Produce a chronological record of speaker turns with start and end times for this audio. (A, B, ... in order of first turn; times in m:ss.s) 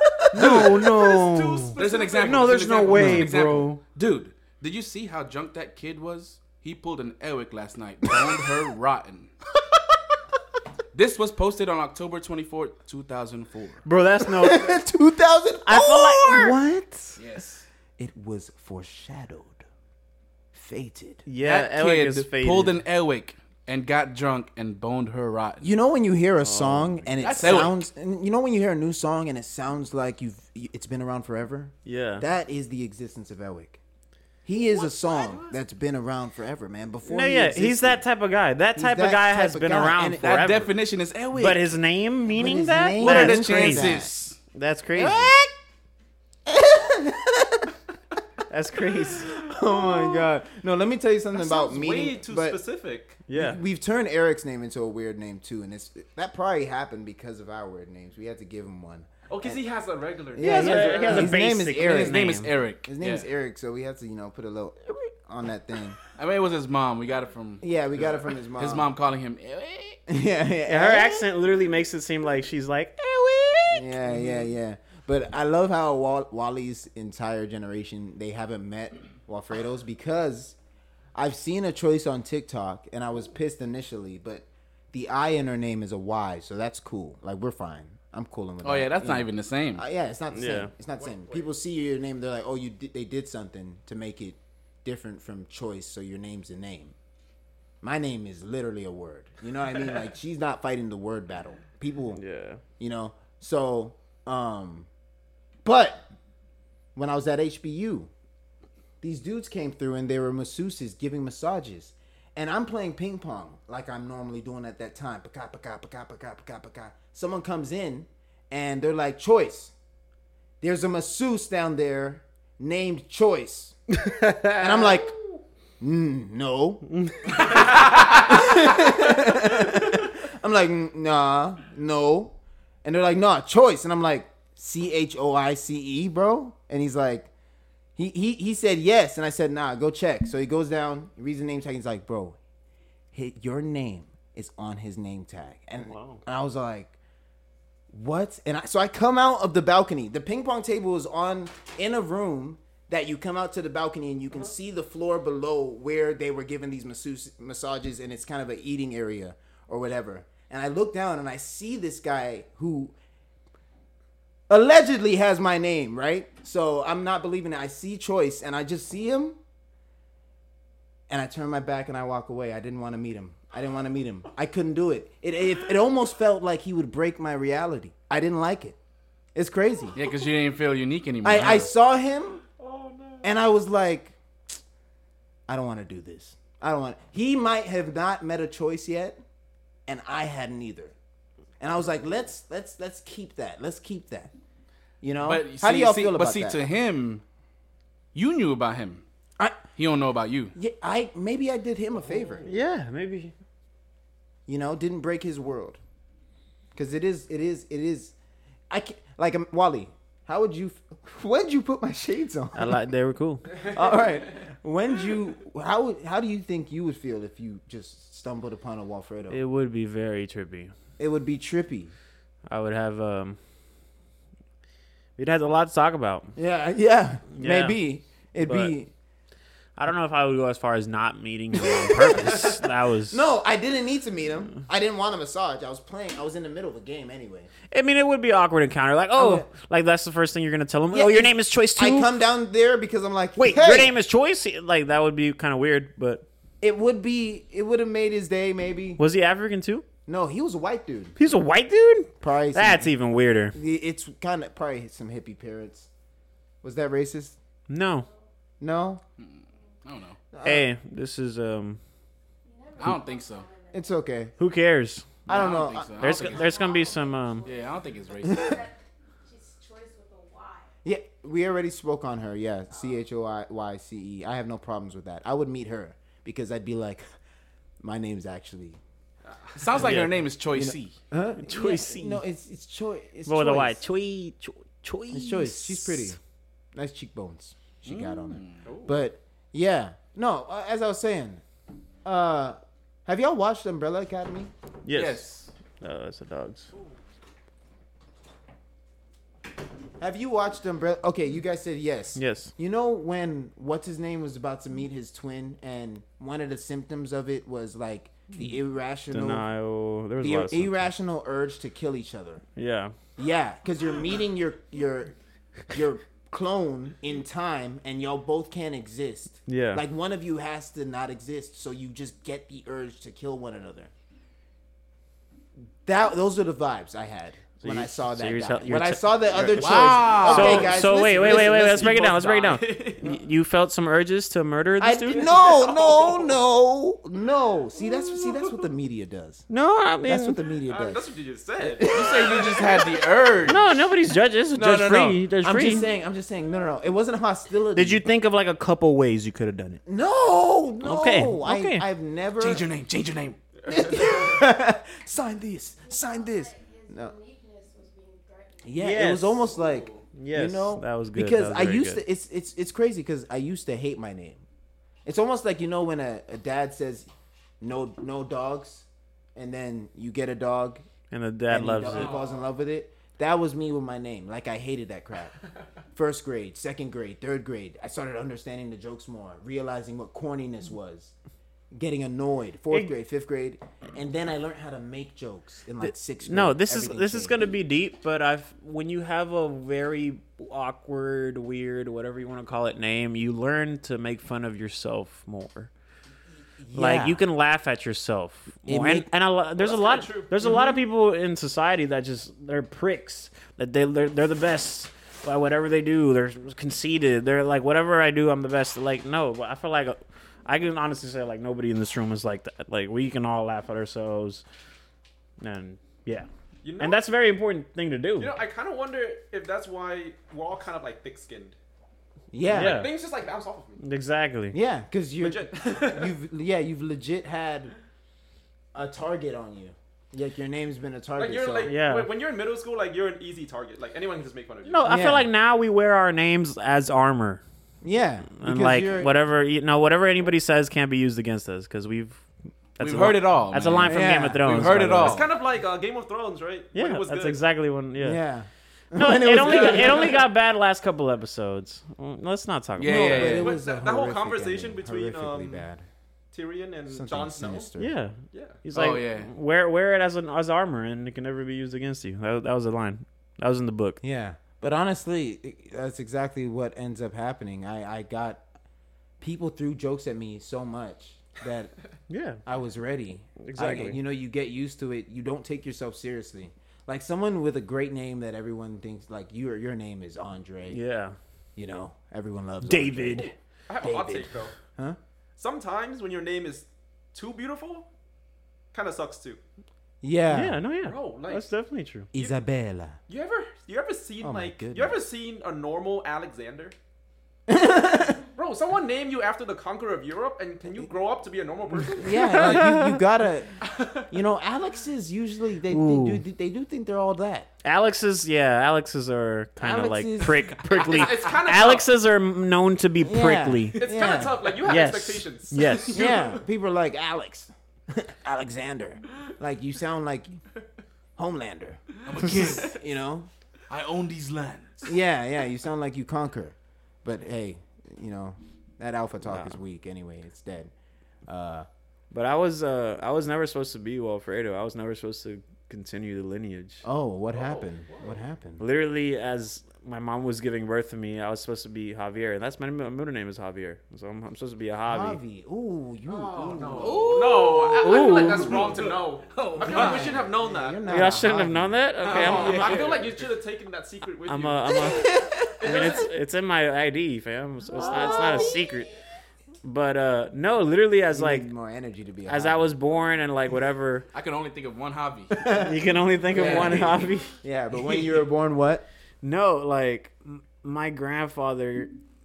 0:00.3-0:00.9 A
0:00.3-0:03.8 B
0:00.8-0:03.4 C
0:01.8-0:09.3 A
0:10.9-0:13.8 A
0:13.8-0:14.8 B
0:14.4-0:16.6 D
0:15.6-0:17.2 B
0:17.2-0:17.6 A
0:18.0-0:19.6 D
0:20.5-0:21.2 D
0:21.2-0:22.8 B
0:21.4-0:25.7 A
0:25.6-0:33.8 D
0:26.4-0:27.6 B
0:27.2-0:27.9 A
0:31.8-0:32.2 B
0:34.4-0:38.0 D
0:34.7-0:35.6 C
0:37.0-0:40.7 B
0:38.8-0:40.5 D
0:40.2-0:41.6 A
0:41.3-0:44.0 B
0:42.3-0:44.1 D
0:43.0-0:44.4 A
0:44.5-0:45.3 B
0:45.0-0:45.5 D
0:46.5-0:47.7 D
0:48.5-0:49.4 B
0:49.4-0:52.6 D
0:51.3-0:53.2 C
0:53.3-0:53.6 B
0:53.3-0:59.6 D
0:59.3-1:01.4 C
1:00.3-1:02.3 D
1:00.4-1:02.5 B
1:01.6-1:03.3 A
1:02.8-1:06.0 D
1:06.2-1:10.0 A
1:07.6-1:08.9 D
1:10.1-1:11.3 D
1:10.7-1:14.5 B
1:13.7-1:20.6 D
1:21.1-1:36.9 D
1:28.6-1:29.8 A
1:30.3-1:30.7 B
1:31.0-1:31.5 C
1:37.8-1:42.2 D
1:42.1-1:42.6 B
1:42.8-1:44.9 D
1:45.6-1:46.0 D
1:46.9-1:48.1 D
1:49.0-1:59.7 D
2:00.6-2:03.8 D
2:03.9-2:05.0 B
2:04.5-2:05.2 D
2:05.8-2:17.3 D
2:06.9-2:07.6 B
2:18.0-2:22.4 D
2:23.1-2:26.9 D
2:25.8-2:26.2 B
2:27.9-2:42.9 D
2:44.5-2:49.4 D
2:51.1-2:58.8 D
2:59.3-3:00.0 D
2:59.9-3:01.7 A
3:01.2-3:02.4 D
3:02.6-3:03.3 C
3:03.2-3:04.1 D
3:05.5-3:09.2 D
3:09.9-3:10.9 D
3:11.6-3:14.3 D
3:15.0-3:16.6 D
3:15.2-3:17.2 A
3:18.1-3:19.0 A
3:19.8-3:20.5 A
3:20.5-3:22.5 D
3:22.0-3:22.5 C
3:22.4-3:23.3 B
3:24.5-3:25.8 D
3:26.8-3:28.1 D
3:28.7-3:32.8 D
3:32.5-3:33.7 B
3:33.6-3:39.4 D
3:39.3-3:40.7 B
3:41.0-3:41.9 D
3:42.5-3:43.4 B
3:45.2-3:46.3 B
3:46.4-3:48.9 D
3:47.3-3:47.8 B
3:48.4-3:48.8 B
3:49.8-3:53.3 B
3:51.8-3:52.5 D
3:53.1-3:57.5 D
3:57.7-4:02.1 B
3:59.1-3:59.5 D
4:00.9-4:03.9 D
4:03.4-4:06.2 B
4:06.6-4:09.0 D
4:09.0-4:09.9 B
4:10.0-4:11.2 D
4:11.2-4:13.6 B
4:12.2-4:12.9 D
4:13.5-4:15.9 D
4:16.6-4:17.4 D
4:17.7-4:18.1 B
4:17.9-4:18.3 E
4:18.6-4:19.0 D
4:19.2-4:20.2 A
4:20.3-4:20.6 D
4:20.4-4:21.8 B
4:22.4-4:24.1 E
4:22.8-4:23.5 A
4:23.7-4:24.3 D
4:24.4-4:25.2 B
4:25.2-4:26.2 D
4:25.3-4:26.6 A
4:25.6-4:30.7 E
4:26.0-4:27.5 B
4:27.4-4:28.6 A
4:28.2-4:28.6 D
4:30.8-4:37.1 D
4:37.8-4:38.8 D
4:39.2-4:39.9 C
4:39.5-4:41.0 A
4:39.8-4:40.1 B
4:40.5-4:43.8 D
4:41.4-4:42.2 B
4:43.2-4:46.2 B
4:45.1-4:46.2 D
4:46.8-4:51.4 D
4:47.8-4:48.7 A
4:48.6-4:49.0 C
4:52.0-4:54.5 D
4:54.8-4:55.2 B
4:54.9-4:55.5 A
4:55.8-4:56.7 B
5:00.0-5:09.5 D
5:02.2-5:02.5 B
5:09.1-5:10.9 B
5:10.2-5:12.4 D
5:12.6-5:12.9 B
5:13.2-5:15.1 D
5:15.7-5:23.9 D
5:19.5-5:19.8 B
5:25.8-5:32.0 D
5:27.6-5:35.3 B
5:29.4-5:30.8 A
5:30.3-5:33.2 C
5:34.8-5:39.5 D
5:35.2-5:36.4 C
5:38.0-5:38.6 C
5:39.5-5:40.4 B
5:40.0-5:41.1 D
5:40.7-5:42.8 C
5:41.6-5:42.6 D
5:41.8-5:43.8 A
5:43.4-5:45.9 B
5:44.6-5:48.0 D
5:47.7-5:49.8 B
5:49.9-5:52.7 D
5:50.8-5:51.9 B
5:52.4-5:53.4 A
5:53.6-5:54.4 C
5:53.6-5:57.1 D
5:55.8-5:59.1 E
5:58.6-6:04.4 D
5:58.8-5:59.5 B
5:59.4-6:00.0 C
6:00.1-6:02.0 B
6:05.1-6:07.1 D
6:07.6-6:10.8 D
6:11.1-6:12.2 B
6:11.5-6:15.4 D
6:11.9-6:12.4 C
6:15.9-6:21.1 D
6:21.7-6:27.4 D
6:25.8-6:35.7 B
6:36.6-6:37.2 D
6:36.7-6:54.4 B
6:38.6-6:39.1 D
6:39.6-6:40.7 C
6:55.4-6:56.3 B
6:56.6-6:57.0 C
6:56.8-6:58.4 B
6:58.2-7:01.6 C
7:02.3-7:02.9 D
7:02.5-7:02.9 B
7:02.5-7:03.8 C
7:03.8-7:04.6 B
7:04.5-7:07.7 D
7:05.2-7:06.1 C
7:08.7-7:11.8 D
7:11.2-7:14.9 C
7:11.6-7:12.1 B
7:14.6-7:17.4 B
7:14.9-7:15.3 D
7:17.8-7:19.1 D
7:18.4-7:22.2 B
7:22.8-7:25.2 B
7:22.8-7:25.3 A
7:23.8-7:24.9 D
7:25.0-7:27.4 C
7:26.7-7:28.2 B
7:28.0-7:30.2 D
7:28.9-7:33.4 B
7:29.3-7:30.2 C
7:32.8-7:33.5 A
7:32.8-7:35.9 D
7:33.2-7:35.6 C
7:36.3-7:37.7 C
7:36.9-7:37.9 D
7:37.8-7:44.0 B
7:38.3-7:38.6 C
7:38.7-7:39.3 A
7:44.0-7:48.4 D
7:49.2-7:51.7 D
7:52.1-7:52.4 B
7:52.4-8:00.8 D
7:53.4-7:54.0 B
8:00.7-8:01.2 B
8:01.6-8:05.0 D
8:02.6-8:03.3 B
8:03.2-8:04.5 C
8:05.4-8:07.9 C
8:08.7-8:09.4 C
8:10.0-8:10.6 D
8:10.3-8:12.1 B
8:10.8-8:11.5 C
8:12.1-8:13.0 D
8:13.1-8:16.7 C
8:14.2-8:15.0 D
8:17.5-8:18.2 D
8:18.3-8:22.5 C
8:21.9-8:23.6 D
8:22.1-8:23.0 B
8:23.6-8:24.0 C
8:24.1-8:27.5 D
8:25.7-8:26.2 B
8:27.6-8:33.9 B
8:29.6-8:31.1 D
8:30.8-8:31.9 C
8:33.0-8:34.6 D
8:33.7-8:36.4 C
8:34.6-8:36.1 B
8:35.9-8:40.4 D
8:41.2-8:41.8 D
8:42.1-8:42.7 A
8:42.2-8:42.6 B
8:42.7-8:43.3 D
8:43.7-8:44.9 A
8:44.9-8:50.7 D
8:49.2-8:49.6 B
8:51.3-8:51.7 D
8:52.1-8:56.8 B
8:56.8-8:58.6 D
8:57.3-8:58.2 C
8:58.6-9:05.2 B
9:04.9-9:07.1 D
9:06.1-9:10.9 C
9:06.8-9:10.2 A
9:07.7-9:08.7 B
9:09.7-9:13.1 D
9:10.9-9:12.8 B
9:12.0-9:15.0 C
9:12.1-9:13.1 A
9:14.3-9:18.9 B
9:15.6-9:16.1 C
9:17.7-9:18.6 D
9:18.0-9:18.4 C
9:19.6-9:21.5 B
9:21.1-9:22.7 D
9:22.2-9:24.1 B
9:24.1-9:25.5 A
9:25.4-9:28.8 D
9:25.6-9:27.4 B
9:26.3-9:27.1 A
9:29.2-9:31.9 B